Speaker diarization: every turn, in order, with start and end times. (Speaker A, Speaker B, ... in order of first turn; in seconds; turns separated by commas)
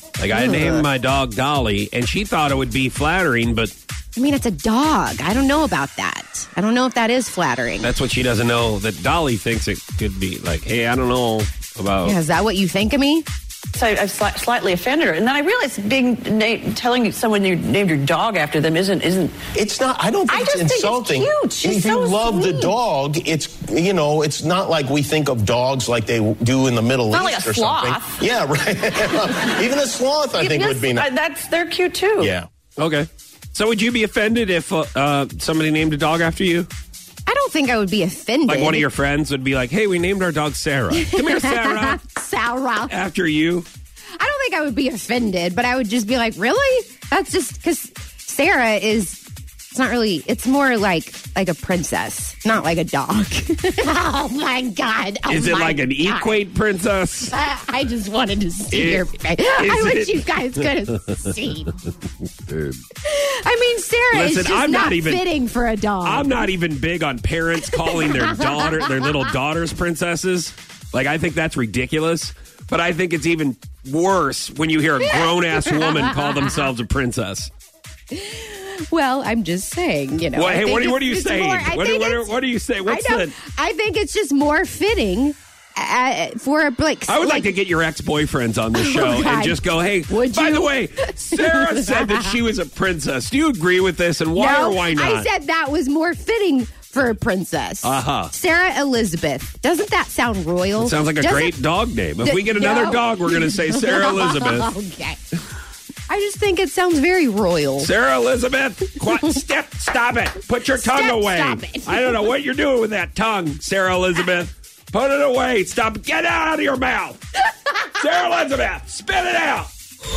Speaker A: 0.2-3.7, Speaker B: 0.3-0.8, Speaker B: 4.1-7.9, Speaker A: 7.8-12.2, Speaker B: 12.0-13.2, Speaker C: 13.7-19.4, Speaker D: 19.5-31.1, Speaker C: 20.3-22.7, Speaker C: 27.1-28.2, Speaker C: 30.4-32.3, Speaker D: 32.2-32.5, Speaker A: 32.8-36.7, Speaker B: 37.2-38.9, Speaker A: 38.5-42.0, Speaker B: 40.9-42.9, Speaker A: 42.9-43.7, Speaker B: 44.2-49.2, Speaker B: 49.7-56.4, Speaker A: 55.3-57.3, Speaker B: 57.3-61.8, Speaker A: 58.7-60.7, Speaker A: 62.5-62.8, Speaker B: 63.0-66.5, Speaker A: 64.1-65.3, Speaker A: 66.0-77.5, Speaker B: 67.7-69.3, Speaker B: 75.0-76.4, Speaker B: 78.1-82.3, Speaker A: 80.3-83.3, Speaker B: 82.8-87.5, Speaker A: 87.1-95.3, Speaker B: 88.7-92.3, Speaker B: 94.3-101.6, Speaker A: 97.8-98.3, Speaker A: 100.8-104.7, Speaker B: 102.2-105.2, Speaker B: 106.1-107.9, Speaker A: 107.8-117.2, Speaker B: 109.0-109.4, Speaker B: 110.5-112.3, Speaker A: 117.8-119.7